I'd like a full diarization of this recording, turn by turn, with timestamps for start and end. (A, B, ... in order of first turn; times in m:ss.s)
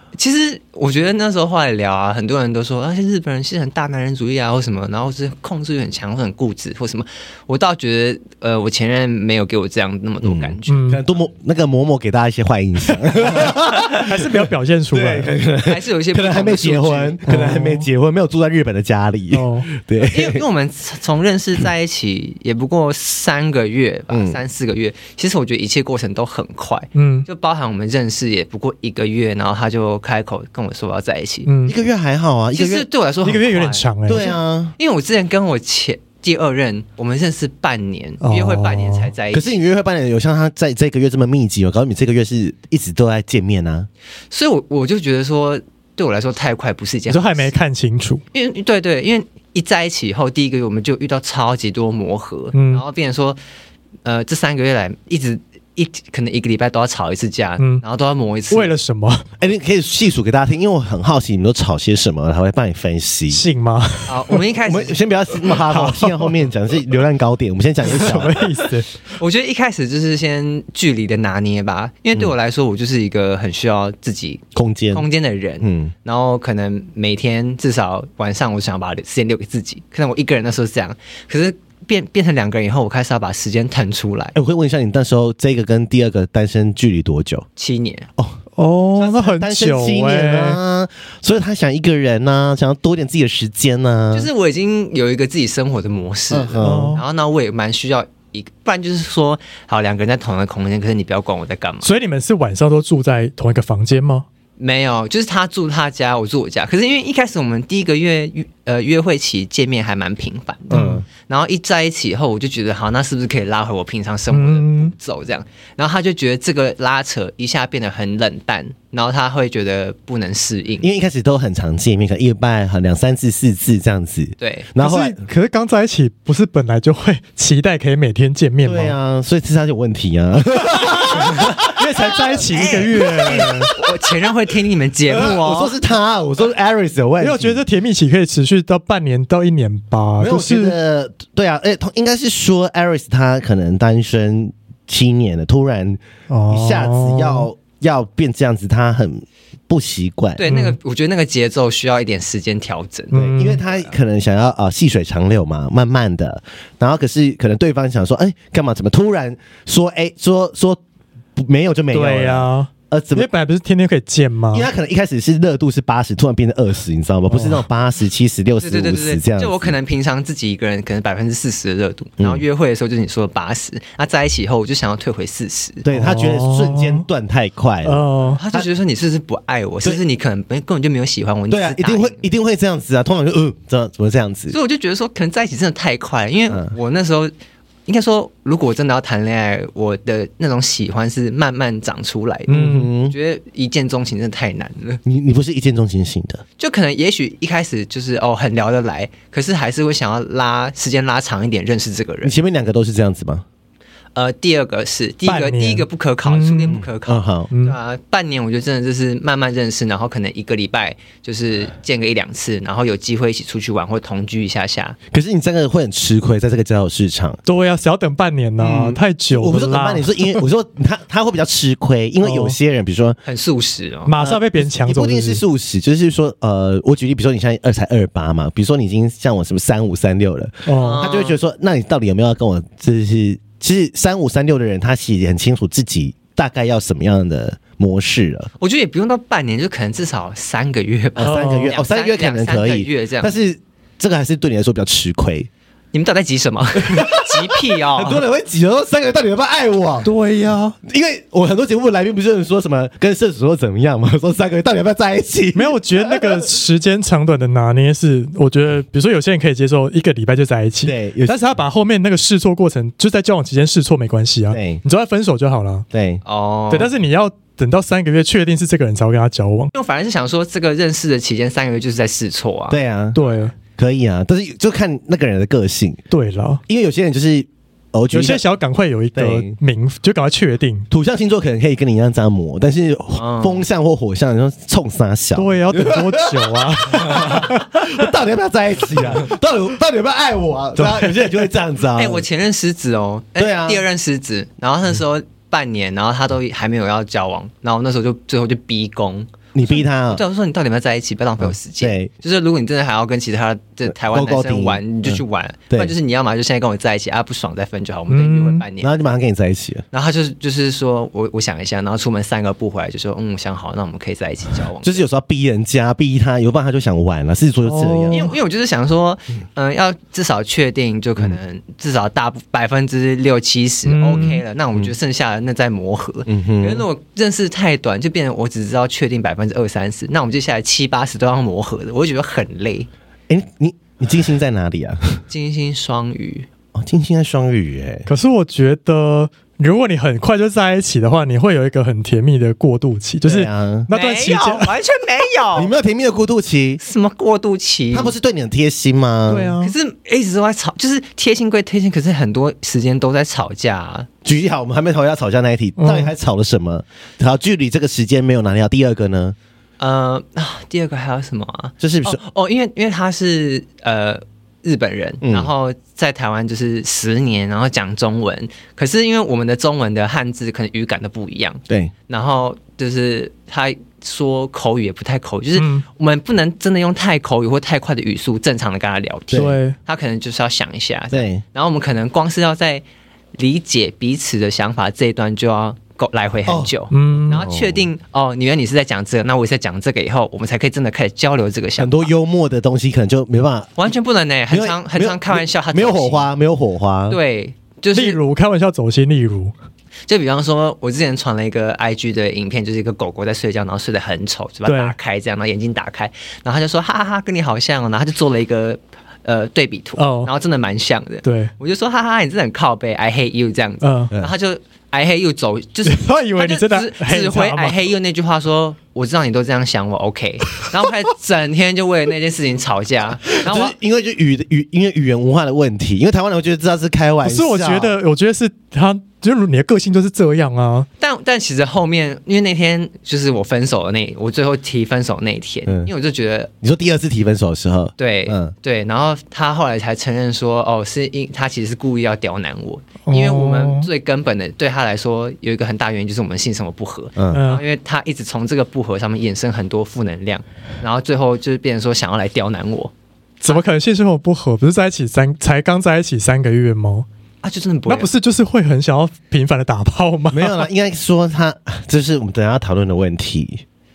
0:00.2-0:10.8 A
0:10.2-0:20.4 B
0:10.7-0:11.0 C
0:13.9-0:15.3 C
0:15.6-0:17.2 A
0:17.3-0:17.9 C
0:19.3-0:19.7 C
0:20.0-0:31.5 A
0:24.1-0:24.4 B
0:27.0-0:27.3 C
0:31.5-0:31.8 C
0:31.7-0:32.9 B
0:32.5-0:39.5 A
0:33.2-0:34.3 C
0:34.1-0:34.7 B
0:38.2-0:39.1 C
0:39.3-0:43.9 B
0:44.3-0:47.6 A
0:47.1-0:48.2 C
0:48.3-0:53.4 A
0:52.5-0:52.8 C
0:54.0-0:58.7 A
0:58.5-0:59.3 C
0:59.4-1:03.4 B
1:03.3-1:04.4 C
1:04.1-1:05.0 A
1:04.6-1:08.5 B
1:05.5-1:06.4 C
1:07.8-1:08.9 C
1:09.2-1:24.4 A
1:14.6-1:15.1 B
1:15.6-1:15.9 B
1:24.4-1:27.4 B
1:27.6-1:28.1 A
1:28.6-1:30.6 C
1:29.0-1:34.3 B
1:34.1-1:41.9 A
1:36.3-1:37.0 B
1:36.6-1:37.0 C
1:41.8-1:44.3 C
1:44.6-2:00.9 A
1:50.7-1:51.0 C
1:50.7-1:51.0 B
1:54.3-1:54.9 C
2:00.8-2:05.2 B
2:04.4-2:04.7 A
2:04.8-2:09.0 C
2:08.6-2:13.9 B
2:11.3-2:13.7 C
2:12.5-2:15.7 A
2:15.1-2:17.6 B
2:17.2-2:20.8 C
2:20.2-2:30.4 B
2:26.3-2:27.5 C
2:30.4-2:33.9 A
2:30.5-2:30.8 C
2:33.1-2:33.6 C
2:33.1-2:40.8 B
2:41.4-2:43.3 B
2:41.9-2:44.7 C
2:44.5-2:49.8 B
2:47.3-2:47.6 C
2:48.6-2:55.8 A
2:52.2-2:52.4 B
2:55.8-2:58.7 B
2:55.9-2:57.0 C
2:57.8-2:58.4 C
2:58.3-3:02.2 A
3:01.5-3:04.6 B
3:04.5-3:07.3 A
3:07.9-3:15.0 A
3:12.5-3:12.9 C
3:12.5-3:13.2 B
3:15.0-3:16.4 B
3:16.6-3:22.4 A
3:22.2-3:23.4 B
3:24.2-3:35.0 A
3:25.2-3:26.8 C
3:26.7-3:27.5 B
3:27.5-3:27.8 C
3:35.1-3:37.4 B
3:37.4-3:40.4 C
3:38.6-3:43.2 B
3:42.2-3:42.6 C
3:43.2-3:44.2 A
3:44.1-3:45.4 C
3:44.2-3:58.5 B
3:50.7-3:51.0 C
3:50.8-3:51.4 A
3:58.6-4:03.3 A
4:01.2-4:05.5 B
4:01.2-4:01.7 C
4:05.9-4:08.2 A
4:06.8-4:10.1 B
4:10.0-4:10.8 C
4:10.8-4:16.5 B
4:15.6-4:25.9 C
4:20.8-4:21.4 B
4:24.5-4:24.8 B
4:25.9-4:26.2 B
4:26.2-4:26.9 A
4:26.7-4:29.7 C
4:29.7-4:32.8 A
4:32.7-4:33.2 B
4:33.1-4:33.5 C
4:33.8-4:36.0 B
4:36.1-4:36.6 C
4:36.7-4:38.4 B
4:38.1-4:40.9 C
4:39.2-4:39.6 B
4:40.9-4:52.2 B
4:43.2-4:43.6 A
4:45.4-4:47.8 C
4:50.8-4:51.3 C
4:52.0-5:08.9 A
4:53.4-4:53.8 B
4:59.5-5:00.2 B
5:01.4-5:02.1 B
5:03.9-5:05.9 B
5:08.1-5:08.6 C
5:08.8-5:09.8 B
5:09.9-5:15.0 A
5:14.8-5:18.3 B
5:17.7-5:18.3 C
5:18.1-5:32.9 A
5:23.9-5:24.4 C
5:26.3-5:26.9 B
5:33.3-5:35.2 B
5:35.3-5:36.5 A
5:36.8-5:38.1 B
5:38.1-5:44.7 C
5:43.2-5:43.9 B
5:43.9-5:45.7 A
5:45.6-5:46.8 B
5:46.8-5:48.1 A
5:47.9-5:49.5 B
5:49.3-5:49.7 C
5:49.6-5:54.1 A
5:54.2-5:59.4 B
5:55.8-5:56.1 C
5:59.8-6:22.8 A
6:01.8-6:02.2 B
6:05.2-6:05.5 B
6:15.6-6:15.8 C
6:19.3-6:19.6 B
6:19.3-6:19.8 C
6:21.1-6:21.4 B
6:23.4-6:32.1 A
6:26.5-6:26.7 B
6:26.9-6:27.4 C
6:27.3-6:27.9 B
6:31.8-6:33.8 B
6:33.8-6:36.3 A
6:34.5-6:37.2 B
6:37.1-6:38.2 A
6:37.9-6:39.5 C
6:40.1-7:03.8 A
6:44.7-6:45.0 C
6:50.0-6:50.3 C
6:51.2-6:51.5 C
6:53.8-6:54.1 C
6:55.9-6:57.8 C
7:03.3-7:08.0 B
7:07.2-7:10.9 C
7:11.0-7:16.5 A
7:16.6-7:18.5 B
7:18.0-7:32.9 A
7:23.1-7:23.9 C
7:27.2-7:27.4 B
7:27.3-7:27.6 C
7:33.4-7:37.1 C
7:37.4-7:38.1 A
7:37.9-7:40.7 C
7:40.3-7:43.6 B